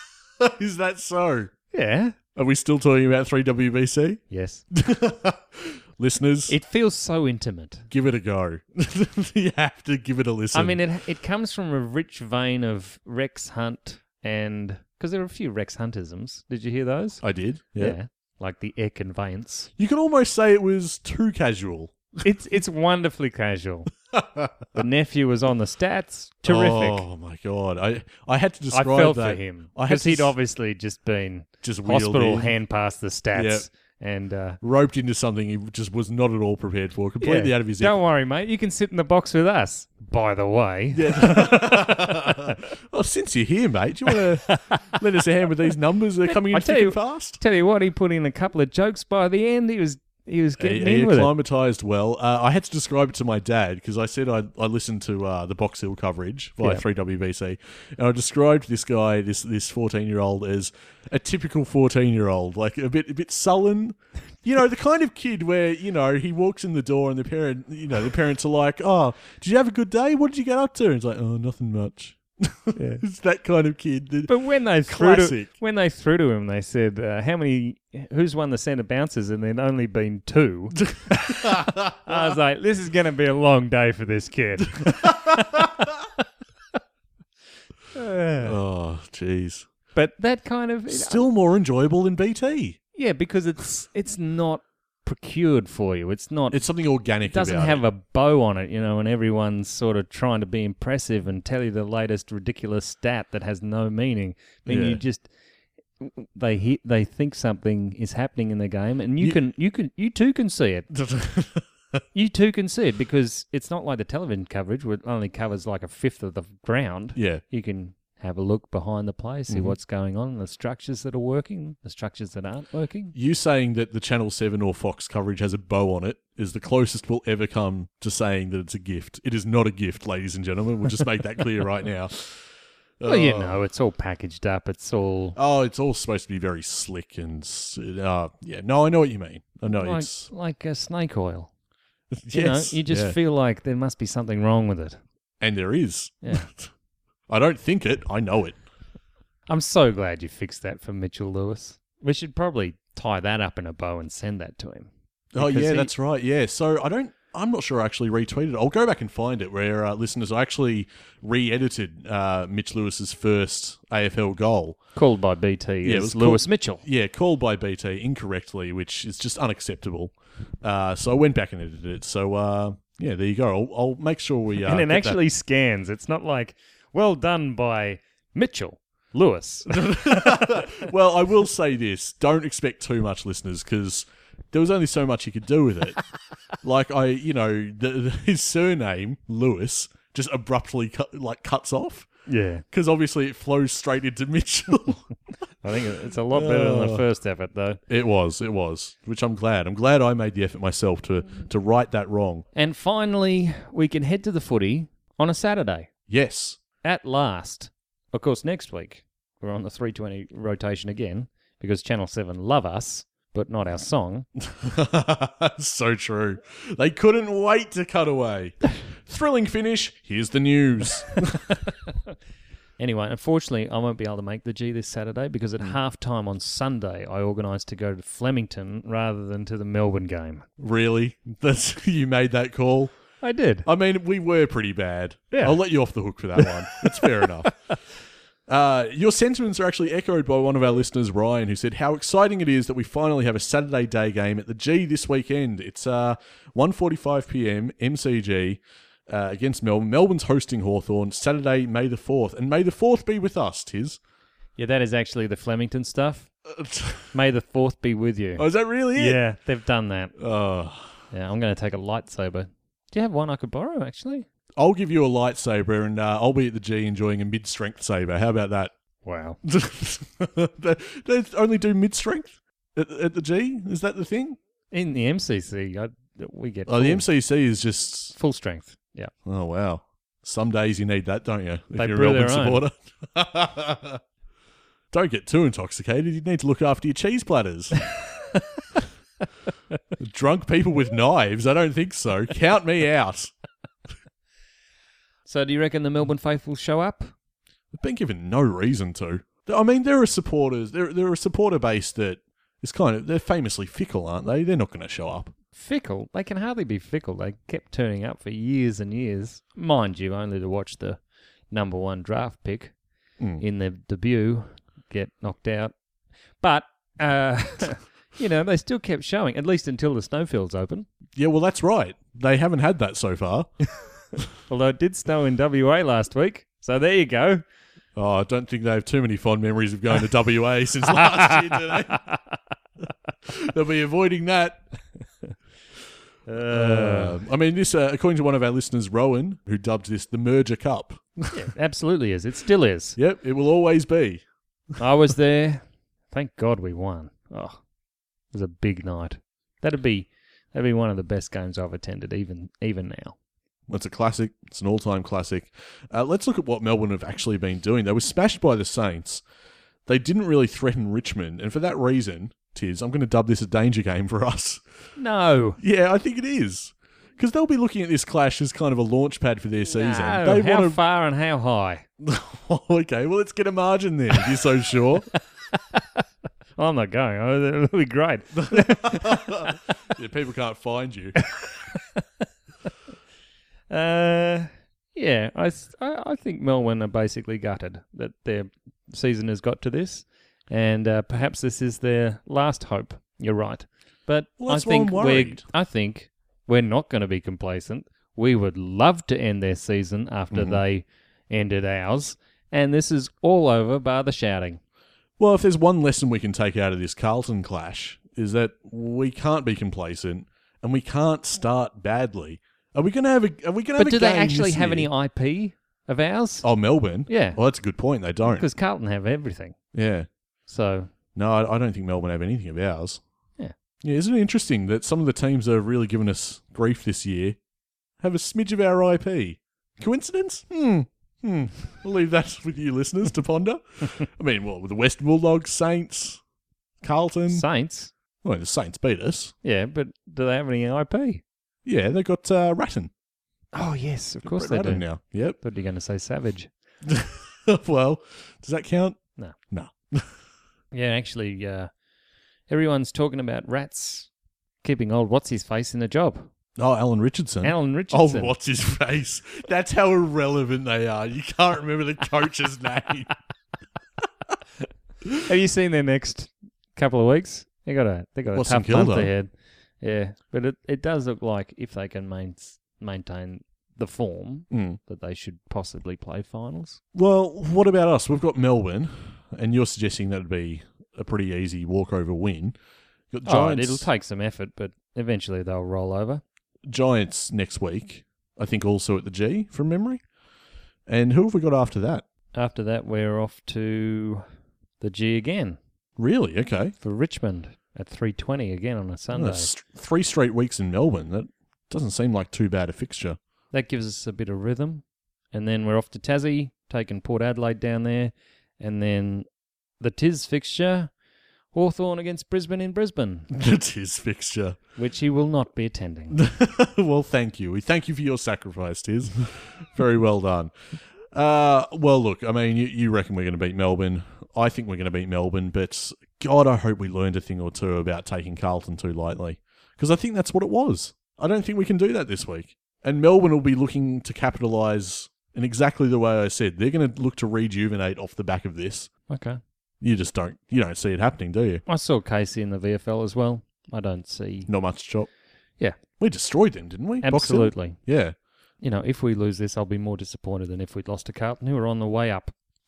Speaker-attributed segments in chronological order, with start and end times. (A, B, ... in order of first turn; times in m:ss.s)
0:00.4-0:01.5 A
0:01.7-0:02.2 B
0:02.4-0:06.5 A
0:04.3-0:04.6 B
0:06.5-0:07.9 B
0:07.9-0:10.8 A
0:10.5-0:17.2 B
0:17.2-0:18.0 A
0:17.8-0:19.7 B
0:19.8-0:22.2 A
0:22.2-0:23.9 B
0:24.1-0:24.5 A
0:24.7-0:27.0 B
0:26.4-0:30.3 A
0:28.7-0:34.6 B
0:31.6-0:32.5 A
0:33.3-0:33.6 A
0:34.6-0:38.0 A
0:37.2-0:42.6 B
0:40.9-0:47.4 A
0:44.1-0:44.9 B
0:46.2-0:51.3 B
0:50.6-1:14.3 A
1:12.7-1:13.0 B
1:14.3-1:25.9 B
1:14.8-1:15.5 A
1:20.9-1:22.3 A
1:24.8-1:25.6 A
1:27.9-1:28.6 B
1:28.4-1:29.7 A
1:29.9-1:31.3 B
1:30.9-1:32.8 A
1:32.9-1:36.6 B
1:36.5-1:37.8 A
1:37.2-1:45.3 B
1:44.6-1:45.0 A
1:46.0-1:50.9 B
1:50.9-1:51.7 A
1:52.1-2:03.1 B
1:57.2-1:57.4 A
1:59.5-1:59.8 A
2:03.1-2:12.4 A
2:13.0-2:13.6 A
2:13.0-2:15.4 B
2:15.4-2:20.3 A
2:19.7-2:21.5 B
2:22.1-2:23.2 A
2:22.3-2:25.0 B
2:25.4-2:26.7 A
2:27.3-2:28.6 A
2:29.5-2:35.9 B
2:35.3-2:44.8 A
2:45.0-2:46.8 B
2:45.8-2:55.2 A
2:54.6-3:00.9 B
2:59.7-3:06.0 A
3:06.6-3:12.1 A
3:12.3-3:12.6 B
3:12.7-3:15.1 A
3:15.6-3:17.8 B
3:16.3-3:17.0 A
3:17.9-3:22.4 A
3:22.5-3:25.9 B
3:26.1-3:26.6 A
3:26.8-3:34.3 B
3:34.4-3:41.5 A
3:42.8-3:50.4 B
3:50.6-3:52.9 A
3:53.2-3:53.7 B
3:53.6-3:57.5 A
3:55.3-3:55.6 B
3:56.4-3:57.5 B
3:58.5-4:14.0 A
4:14.6-4:16.3 B
4:16.5-4:17.1 A
4:17.1-4:20.1 B
4:18.4-4:19.2 A
4:20.2-4:20.9 A
4:21.1-4:24.3 B
4:24.6-4:28.7 A
4:29.0-4:29.4 B
4:29.4-4:34.4 A
4:34.7-4:37.0 B
4:36.7-4:38.1 A
4:38.1-4:39.1 B
4:39.2-4:44.0 A
4:41.8-4:42.6 B
4:44.9-4:47.8 A
4:50.0-4:53.3 A
4:55.2-4:57.1 B
4:57.7-5:05.3 A
5:05.5-5:12.7 B
5:13.4-5:15.7 B
5:16.4-5:20.9 B
5:21.2-5:23.5 A
5:24.5-5:27.4 B
5:28.0-5:32.0 A
5:31.0-5:32.2 B
5:33.2-5:34.6 A
5:36.3-5:37.2 B
5:36.5-5:41.4 A
5:41.3-5:43.0 B
5:43.0-5:44.2 A
5:44.8-5:47.6 B
5:48.3-5:53.2 B
5:53.7-5:59.2 A
5:59.9-6:04.6 A
6:05.0-6:05.6 B
6:05.6-6:10.8 A
6:09.7-6:11.8 B
6:12.0-6:15.1 A
6:15.5-6:15.8 B
6:16.6-6:19.6 B
6:18.4-6:21.2 A
6:21.2-6:22.0 B
6:23.7-6:44.6 B
6:34.4-6:35.4 A
6:40.3-6:40.6 A
6:45.2-6:54.9 A
6:53.8-6:56.5 B
6:56.4-6:58.5 A
6:57.0-6:57.4 B
6:58.2-6:59.6 B
6:59.7-7:00.1 A
7:00.5-7:00.9 B
7:01.1-7:03.0 A
7:03.8-7:07.4 A
7:08.0-7:16.2 A
7:16.8-7:17.5 A
7:17.3-7:17.9 B
7:18.2-7:19.3 A
7:19.4-7:21.2 B
7:21.6-7:22.9 A
7:23.5-7:24.8 B
7:24.2-7:25.4 A
7:25.4-7:26.5 B
7:26.8-7:29.0 A
7:29.5-7:30.1 A
7:30.7-7:31.7 B
7:32.5-7:34.1 B
7:34.6-7:36.3 B
7:36.6-7:43.1 A
7:37.4-7:38.3 B
7:45.2-7:56.8 B
7:48.3-7:49.1 A
7:54.5-7:54.8 A
7:56.9-8:02.6 A
8:03.1-8:03.9 A
8:03.2-8:06.2 B
8:06.7-8:10.0 A
8:10.9-8:12.0 A
8:12.3-8:14.2 B
8:14.8-8:15.6 B
8:16.0-8:16.7 A
8:16.8-8:19.5 B
8:19.1-8:23.2 A
8:23.5-8:29.3 B
8:29.8-8:30.9 B
8:31.5-8:33.3 B
8:33.3-8:34.6 A
8:34.8-8:36.2 B
8:36.1-8:40.5 A
8:41.1-8:58.9 A
8:59.1-8:59.4 B
8:59.8-9:01.6 A
9:01.7-9:04.5 B
9:04.5-9:05.1 A
9:06.0-9:08.2 A
9:07.0-9:07.8 B
9:08.6-9:12.3 B